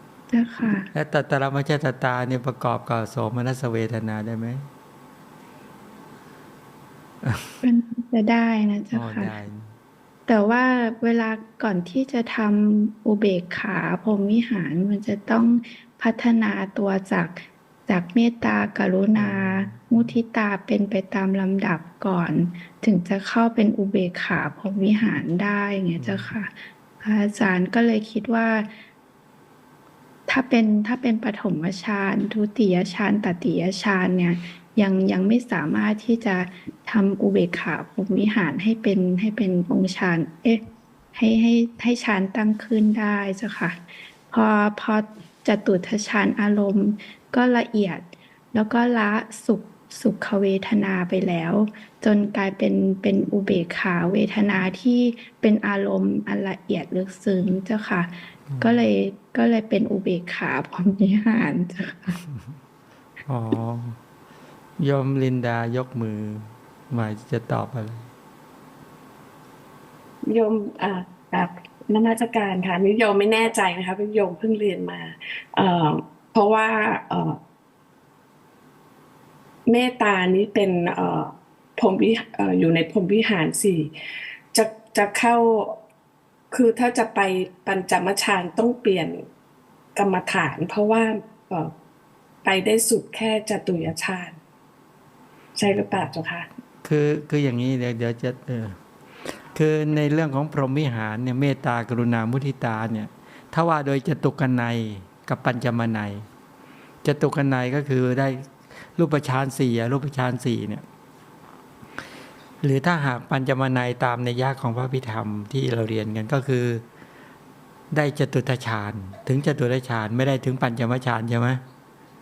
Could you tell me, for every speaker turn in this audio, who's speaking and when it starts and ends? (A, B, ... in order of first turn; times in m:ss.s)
0:00.3-0:00.9 A
0:00.9-0:04.7 B
0:07.2-0:07.6 B
0:07.6-0:09.4 A
0:08.9-0:09.7 B
0:10.3-0:28.7 A
0:19.2-0:20.2 B
0:26.0-0:26.3 B
0:30.3-0:40.6 A
0:41.1-1:02.2 A
0:58.5-0:58.8 B
1:03.3-1:04.0 B
1:04.8-1:08.1 B
1:10.3-1:17.4 C
1:19.7-1:23.9 C
1:24.5-1:25.8 C
1:26.5-1:29.3 C
1:30.0-1:31.7 C
1:32.4-1:34.4 C
1:35.6-1:36.5 C
1:36.8-1:38.8 B
1:39.5-1:46.2 B
1:47.0-1:48.4 B
1:49.0-1:50.8 B
1:52.6-1:56.8 B
1:57.9-2:01.6 B